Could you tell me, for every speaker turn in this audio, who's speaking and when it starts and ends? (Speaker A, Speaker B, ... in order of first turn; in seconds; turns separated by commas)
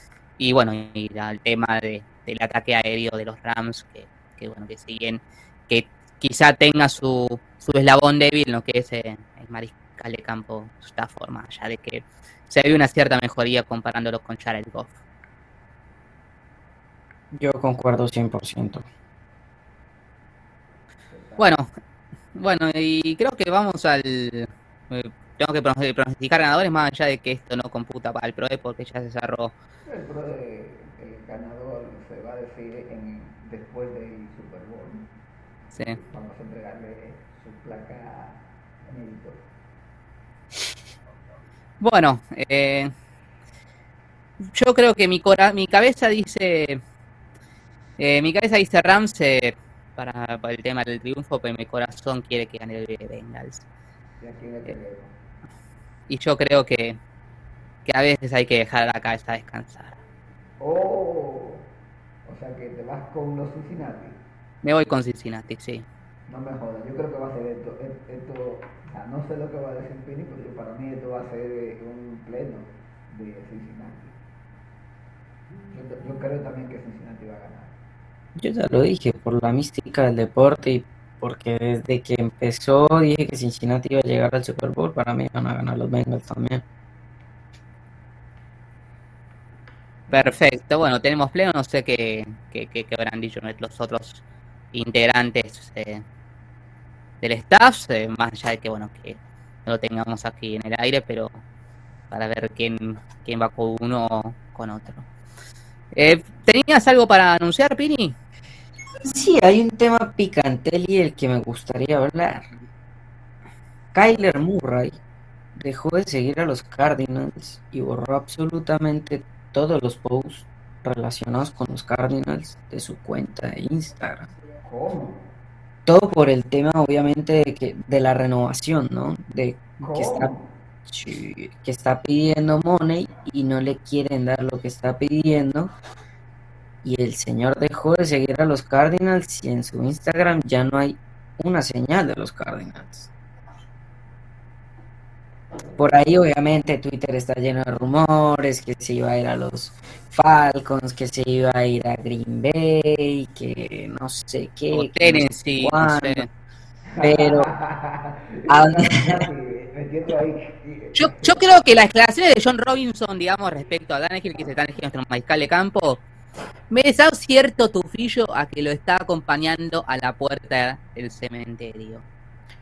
Speaker A: 0.4-15.0, Speaker B: 17.3-18.9, Speaker C: 21.1-21.5, Speaker A: 21.4-21.7, Speaker A: 22.4-29.5, Speaker C: 29.9-35.0, Speaker A: 35.7-36.0, Speaker C: 35.9-39.4, Speaker A: 41.8-42.9, Speaker A: 44.4-46.8, Speaker A: 48.0-53.7, Speaker C: 54.2-55.1, Speaker A: 56.1-57.0, Speaker A: 57.9-60.0, Speaker C: 60.6-61.7, Speaker C: 62.3-64.2, Speaker A: 64.6-65.9, Speaker C: 66.3-74.2, Speaker C: 75.7-77.8, Speaker B: 78.4-86.6, Speaker A: 90.1-96.0, Speaker A: 97.2-101.4, Speaker A: 102.1-105.1, Speaker A: 105.9-108.2, Speaker B: 109.0-112.5, Speaker B: 113.9-115.0, Speaker B: 115.6-124.3, Speaker C: 124.6-125.3, Speaker B: 125.9-130.3, Speaker C: 129.8-130.5, Speaker B: 130.9-135.7, Speaker B: 136.8-143.1, Speaker B: 145.8-156.3, Speaker A: 154.7-156.3, Speaker C: 156.9-161.4, Speaker B: 157.0-157.5, Speaker B: 158.5-159.3, Speaker A: 161.0-166.0, Speaker A: 166.7-172.1